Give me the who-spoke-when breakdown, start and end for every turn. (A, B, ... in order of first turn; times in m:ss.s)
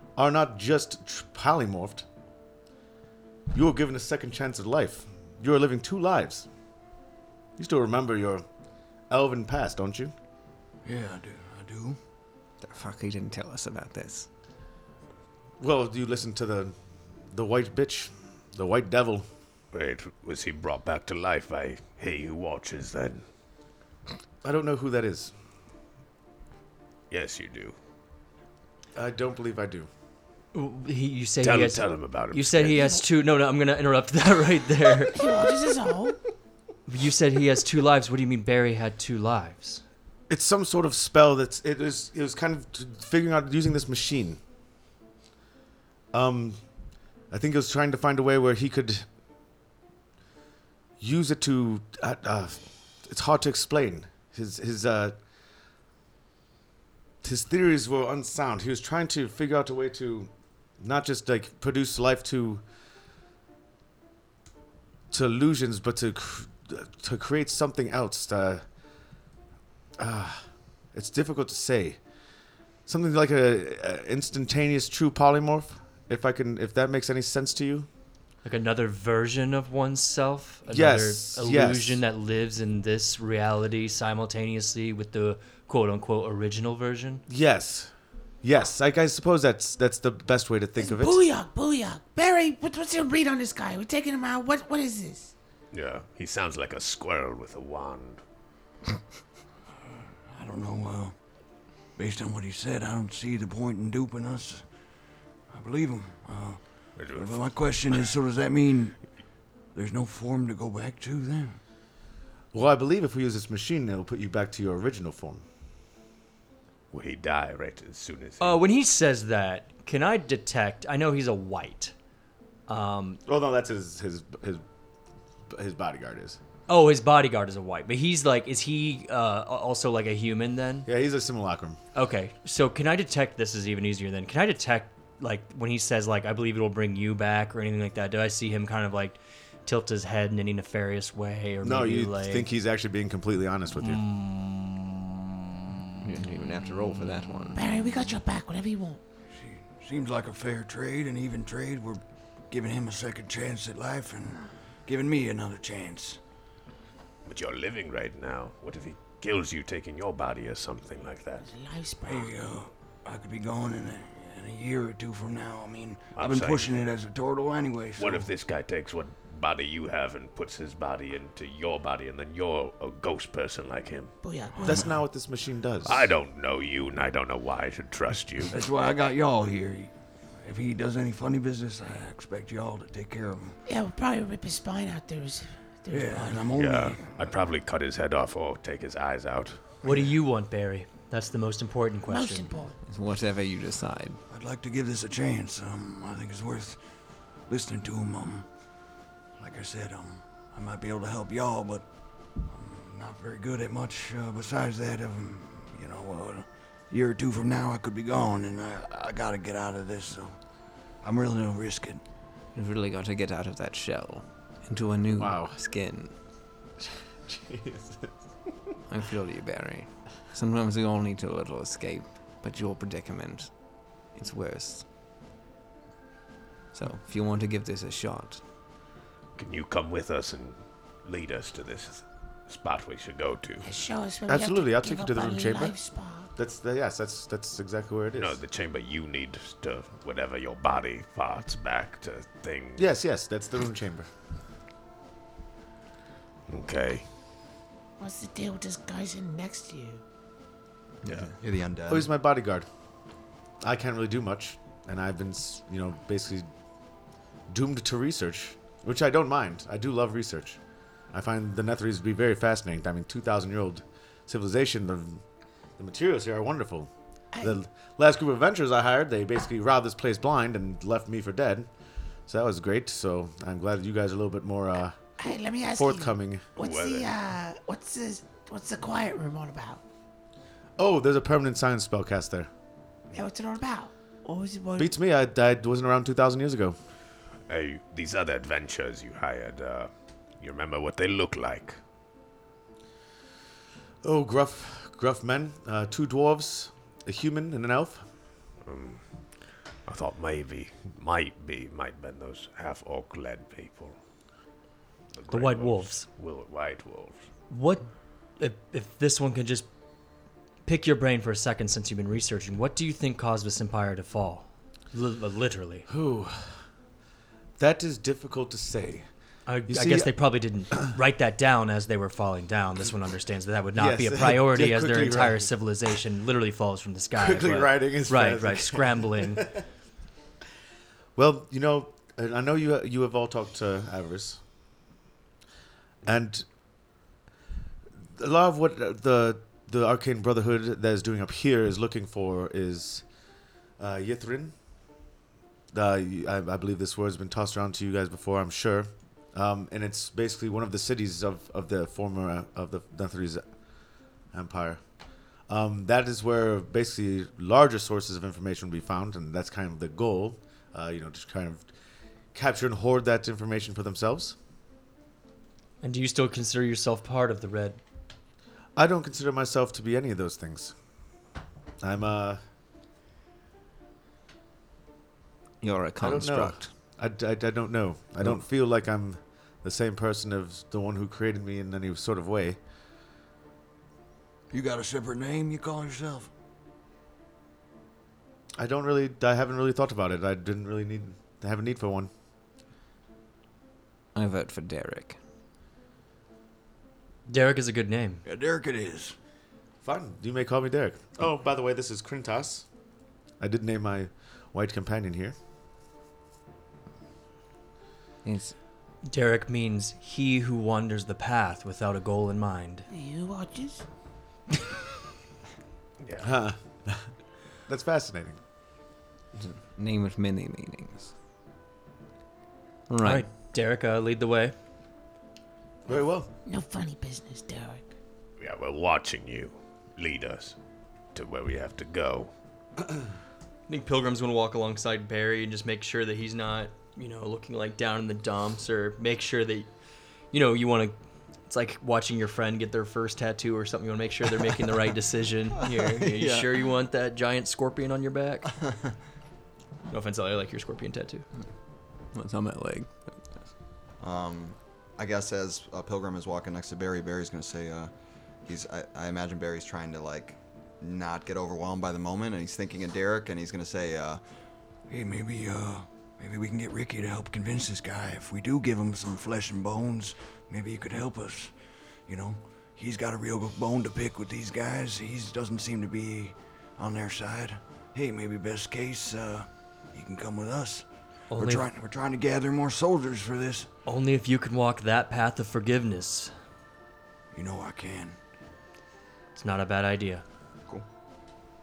0:00.2-0:02.1 A
0:03.5-0:06.5 A
0:07.6-0:08.4 A
0:09.1-0:10.1 A
0:10.8-0:12.0 B
0:12.6-0:14.3 C
0:15.6-0:16.8 A
0:17.3-0:19.3 A
0:19.7-0:23.2 D
0:24.4-0:25.3 A
0:27.1-0:27.8 D
0:29.0-0:29.9 A
0:30.5-0:35.2 E
0:31.4-0:32.9 D
0:35.1-0:36.2 F
0:36.9-0:39.8 E
0:40.3-0:44.4 A
0:46.1-0:46.6 A
0:47.3-0:49.1 A
0:51.0-0:55.2 A
0:57.2-1:02.6 A
1:05.1-1:08.6 A
1:10.0-1:12.0 A
1:12.9-1:17.9 A
1:18.4-1:27.2 E
1:20.7-1:22.0 A
1:27.3-1:27.9 A
1:28.4-1:31.2 A
1:30.8-1:35.3 F
1:35.7-1:38.2 D
1:40.3-1:41.2 B
1:42.0-1:44.6 B
1:45.5-1:49.0 B
1:47.0-1:48.1 D
1:49.7-1:51.6 B
1:52.5-1:55.4 A
1:56.9-1:58.6 D
1:58.4-2:01.9 E
2:02.7-2:03.2 E
2:03.3-2:04.6 A
2:05.5-2:06.4 A
2:06.7-2:10.9 E
2:10.9-2:11.8 A
2:12.0-2:22.5 E
2:21.6-2:24.0 A
2:23.9-2:24.6 E
2:26.0-2:27.6 C
2:27.5-2:29.0 F
2:29.3-2:36.2 B
2:37.2-2:41.5 D
2:41.4-2:42.3 F
2:42.1-2:48.3 B
2:46.2-2:46.8 D
2:48.0-2:54.1 D
2:54.2-2:54.9 F
2:54.6-2:56.1 A
2:55.8-2:58.6 D
2:58.5-3:03.6 B
3:03.7-3:06.6 F
3:05.9-3:07.2 B
3:06.5-3:09.6 D
3:09.8-3:12.5 E
3:09.9-3:10.1 B
3:12.1-3:12.8 F
3:12.9-3:14.2 C
3:14.3-3:16.8 B
3:17.5-3:18.5 B
3:19.4-3:21.9 B
3:22.4-3:30.4 B
3:31.0-3:32.0 B
3:32.6-3:36.1 C
3:35.1-3:35.6 A
3:36.8-3:38.1 A
3:38.9-3:43.5 C
3:44.2-3:44.8 C
3:46.7-3:48.4 C
3:49.4-3:53.7 D
3:53.6-3:56.3 F
3:54.3-3:55.8 A
3:56.4-3:58.4 A
3:58.2-4:02.9 D
4:02.8-4:04.1 A
4:06.5-4:07.1 D
4:08.0-4:10.0 F
4:11.4-4:12.1 G
4:11.9-4:12.7 A
4:13.6-4:16.5 A
4:17.5-4:20.6 A
4:21.1-4:25.2 A
4:25.8-4:26.9 A
4:27.3-4:27.6 F
4:27.4-4:31.7 A
4:32.3-4:35.0 A
4:35.2-4:39.8 F
4:35.7-4:36.5 A
4:36.6-4:37.1 D
4:40.8-4:42.5 A
4:43.1-4:44.9 F
4:44.8-4:46.8 A
4:47.5-4:51.8 D
4:54.0-4:58.1 A
4:58.6-4:59.0 D
4:59.9-5:04.0 D
5:05.1-5:07.2 D
5:05.3-5:06.1 E
5:07.5-5:07.9 E
5:08.4-5:09.7 E
5:10.6-5:15.9 E
5:15.9-5:16.6 A
5:17.6-5:19.1 A
5:19.5-5:29.5 E
5:19.7-5:20.1 A
5:23.8-5:25.5 A
5:27.2-5:29.6 A
5:31.2-5:34.4 A
5:36.0-5:36.5 A
5:38.2-5:43.0 A
5:43.8-5:44.5 A
5:45.7-5:53.4 A
5:54.3-5:54.8 A
5:55.5-6:01.7 A
6:02.3-6:04.4 A
6:05.8-6:07.8 E
6:08.8-6:10.7 A
6:11.8-6:12.4 A
6:15.6-6:16.7 C
6:16.0-6:22.6 A
6:24.5-6:26.3 B
6:28.6-6:32.1 A
6:34.2-6:35.2 C
6:37.3-6:38.2 E
6:38.2-6:39.2 B
6:39.8-6:42.7 A
6:43.4-6:45.4 A
6:48.2-6:48.5 C
6:49.1-6:52.9 E
6:52.9-6:53.8 F
6:56.0-6:56.3 D
6:56.2-6:57.1 A
6:57.7-6:58.4 A
6:59.4-7:01.1 C
7:02.9-7:03.2 C
7:03.0-7:04.5 E
7:05.9-7:06.3 A
7:06.4-7:07.9 F
7:08.4-7:10.6 D
7:11.2-7:12.3 D
7:13.7-7:19.7 E
7:20.3-7:28.5 E
7:26.0-7:26.5 G
7:29.9-7:31.2 E
7:32.1-7:33.0 C
7:34.0-7:37.9 G
7:38.5-7:44.2 G
7:44.9-7:51.5 B
7:52.1-8:03.7 B
8:01.3-8:01.7 E
8:03.9-8:06.3 E
8:07.3-8:08.2 B
8:09.4-8:10.2 E